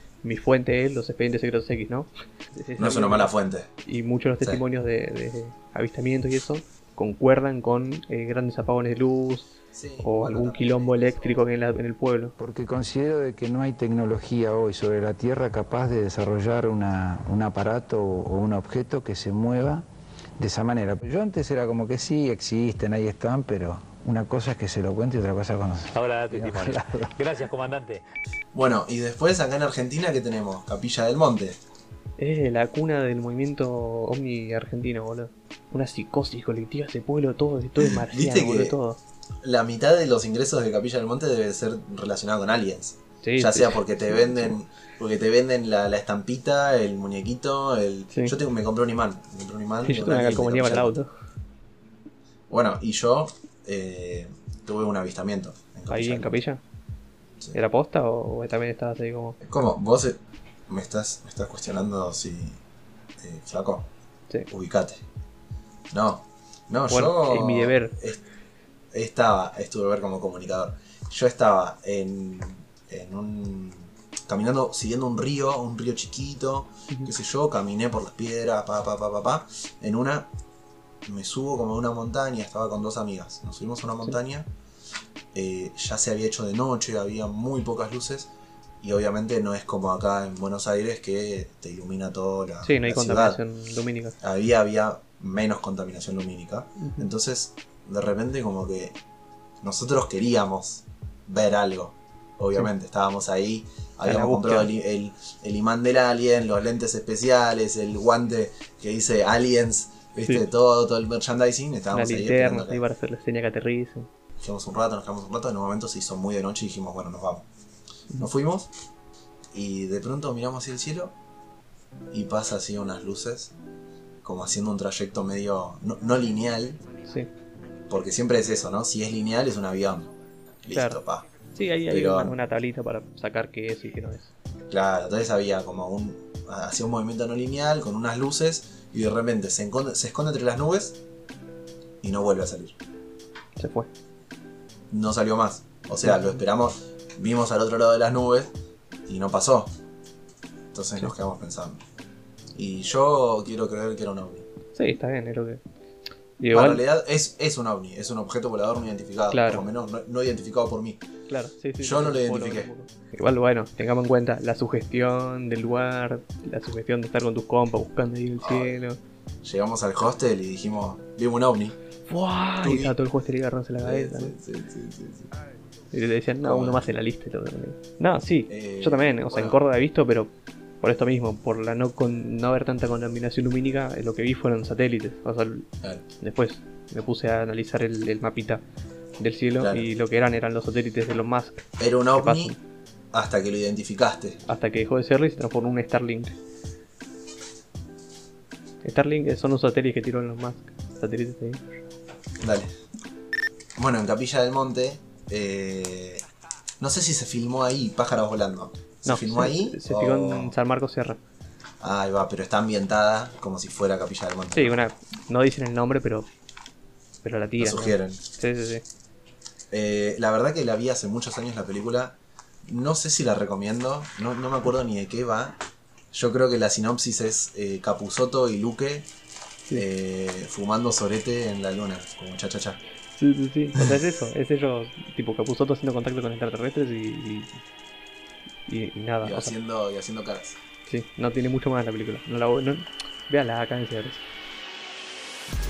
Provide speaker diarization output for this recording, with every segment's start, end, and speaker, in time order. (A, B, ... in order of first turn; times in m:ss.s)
0:00.2-0:03.3 A
0:02.8-0:03.7 B
0:03.8-0:12.3 A
0:09.7-0:11.2 B
0:12.4-0:19.8 C
0:20.4-0:27.1 C
0:25.9-0:28.0 D
0:28.5-0:31.6 B
0:32.2-0:39.0 A
0:37.8-0:38.8 B
0:39.4-0:50.9 B
0:43.2-0:44.5 A
0:49.8-0:51.1 A
0:52.5-0:56.4 B
0:55.9-0:56.6 A
0:57.5-0:59.4 A
0:59.4-1:02.6 B
1:03.2-1:03.9 B
1:04.5-1:05.0 B
1:05.9-1:08.2 B
1:06.9-1:07.9 A
1:08.9-1:20.3 B
1:21.0-1:24.5 B
1:25.3-1:28.3 B
1:28.8-1:33.4 B
1:32.6-1:34.1 A
1:34.2-1:39.0 B
1:36.8-1:37.0 A
1:39.6-1:52.8 B
1:44.0-1:44.7 A
1:51.9-1:54.1 A
1:54.4-1:57.4 B
1:58.2-1:58.7 B
1:59.5-2:01.1 B
2:02.1-2:03.5 B
2:04.2-2:06.8 B
2:07.9-2:10.1 B
2:10.6-2:11.3 B
2:10.7-2:11.0 A
2:11.5-2:14.3 A
2:11.9-2:12.3 B
2:14.7-2:21.0 B
2:22.0-2:22.7 B
2:23.6-2:23.9 A
2:24.9-2:28.5 B
2:26.0-2:26.4 A
2:29.1-2:29.7 B
2:30.7-2:31.8 B
2:32.5-2:34.4 B
2:34.7-2:35.6 A
2:36.4-2:36.8 A
2:36.5-2:41.0 B
2:39.3-2:39.7 A
2:41.3-2:49.0 A
2:41.8-2:42.7 B
2:48.4-2:48.8 B
2:49.4-2:51.8 B
2:52.1-2:54.3 A
2:52.6-2:53.0 B
2:53.8-2:55.3 B
2:55.9-3:00.3 A
2:56.4-2:56.9 B
2:58.5-2:59.6 B
3:00.8-3:05.7 A
3:06.2-3:08.6 A
3:09.2-3:12.6 A
3:09.6-3:09.9 B
3:11.8-3:12.6 B
3:13.1-3:14.4 B
3:14.5-3:16.3 A
3:18.8-3:21.8 A
3:22.4-3:22.7 B
3:23.8-3:26.2 B
3:26.8-3:30.5 B
3:29.0-3:31.2 A
3:31.8-3:34.8 B
3:34.5-3:36.3 A
3:37.2-3:38.8 A
3:37.6-3:38.2 B
3:39.7-3:45.6 B
3:46.1-3:49.1 B
3:49.7-3:52.8 B
3:53.2-3:57.6 A
3:58.7-3:59.5 A
3:59.2-4:00.6 B
4:00.9-4:04.2 A